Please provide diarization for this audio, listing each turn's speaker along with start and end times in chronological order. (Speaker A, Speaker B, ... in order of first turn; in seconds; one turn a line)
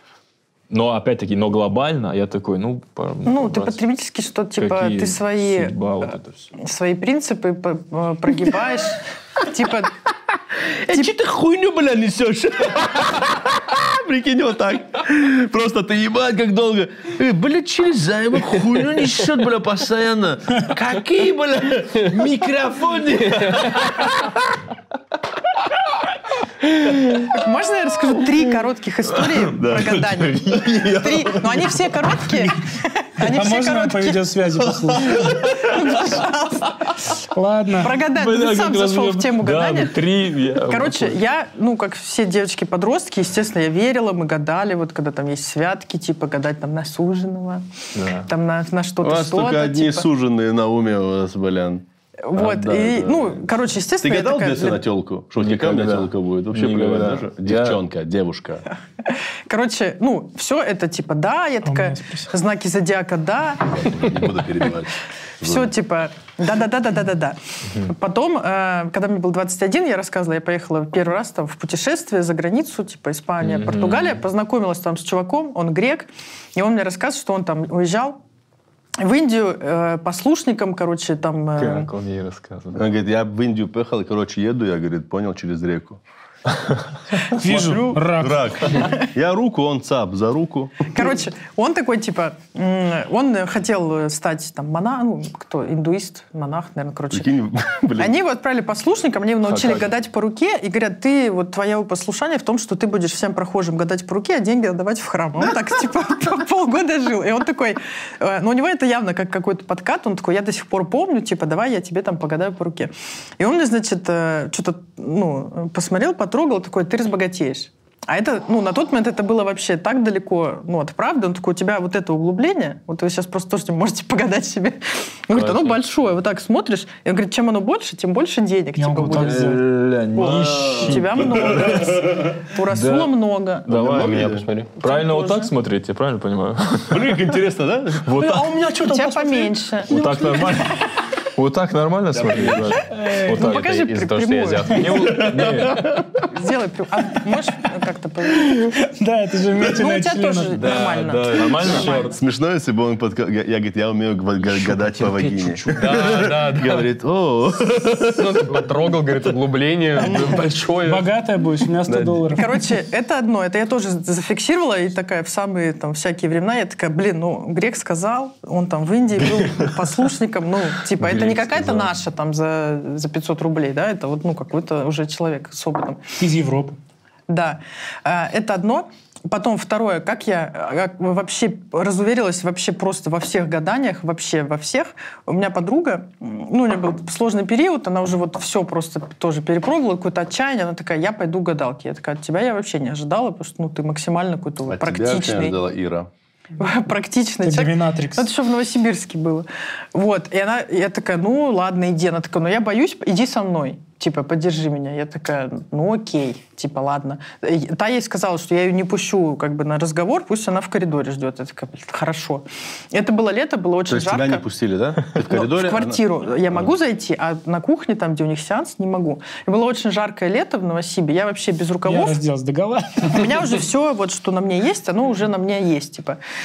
Speaker A: 0.7-3.8
Speaker B: 3.3-9.9
Speaker A: 4.6-6.5
Speaker C: 10.8-24.6
Speaker B: 27.2-34.3
Speaker C: 29.3-31.8
Speaker D: 33.2-35.3
Speaker C: 34.8-35.4
Speaker B: 35.1-36.8
Speaker D: 37.2-38.0
Speaker B: 37.8-50.1
Speaker A: 38.1-41.2
Speaker A: 48.0-48.3
Speaker C: 49.0-51.8
Speaker B: 52.2-54.8
Speaker C: 52.4-53.5
Speaker C: 54.0-58.6
Speaker A: 55.4-57.8
Speaker B: 59.1-64.4
Speaker D: 61.7-62.3
Speaker C: 63.7-65.7
Speaker B: 65.4-78.2
Speaker A: 73.4-74.2
Speaker B: 79.0-81.9
Speaker A: 81.6-82.8
Speaker C: 82.8-86.0
Speaker D: 87.3-88.5
Speaker C: 87.4-91.1
Speaker B: 88.7-89.0
Speaker B: 90.8-97.3
Speaker C: 97.1-98.2
Speaker B: 98.0-129.6
Speaker A: 99.4-99.9
Speaker A: 125.3-125.8
Speaker D: 128.8-129.7
Speaker A: 129.1-133.2
Speaker B: 130.1-133.7
Speaker C: 130.4-131.9
Speaker A: 133.7-134.1
Speaker C: 133.7-134.4
Speaker E: 133.7-134.7
Speaker A: 134.8-137.2
Speaker B: 134.8-135.5
Speaker C: 136.9-139.5
Speaker A: 138.0-138.4
Speaker B: 138.4-140.8
Speaker A: 139.8-140.8
Speaker A: 141.4-143.8
Speaker E: 142.1-142.8
Speaker B: 142.8-145.3
Speaker D: 142.9-143.3
Speaker E: 143.3-145.3
Speaker A: 144.7-145.9
Speaker C: 145.0-146.0
Speaker B: 146.3-148.7
Speaker D: 148.4-150.6
Speaker B: 149.6-152.2
Speaker E: 150.6-151.9
Speaker A: 151.3-152.2
Speaker C: 151.6-158.6
Speaker A: 154.4-156.1
Speaker E: 155.7-156.9
Speaker E: 158.1-161.1
Speaker D: 160.0-162.6
Speaker C: 161.9-162.3
Speaker B: 162.3-176.0
Speaker C: 171.1-171.9
Speaker D: 176.2-176.8
Speaker B: 177.3-195.6
Speaker C: 194.7-196.1
Speaker B: 196.6-214.4
Speaker D: 197.4-198.3
Speaker C: 213.9-216.7
Speaker B: 215.1-222.2
Speaker D: 221.9-223.4
Speaker B: 223.1-226.2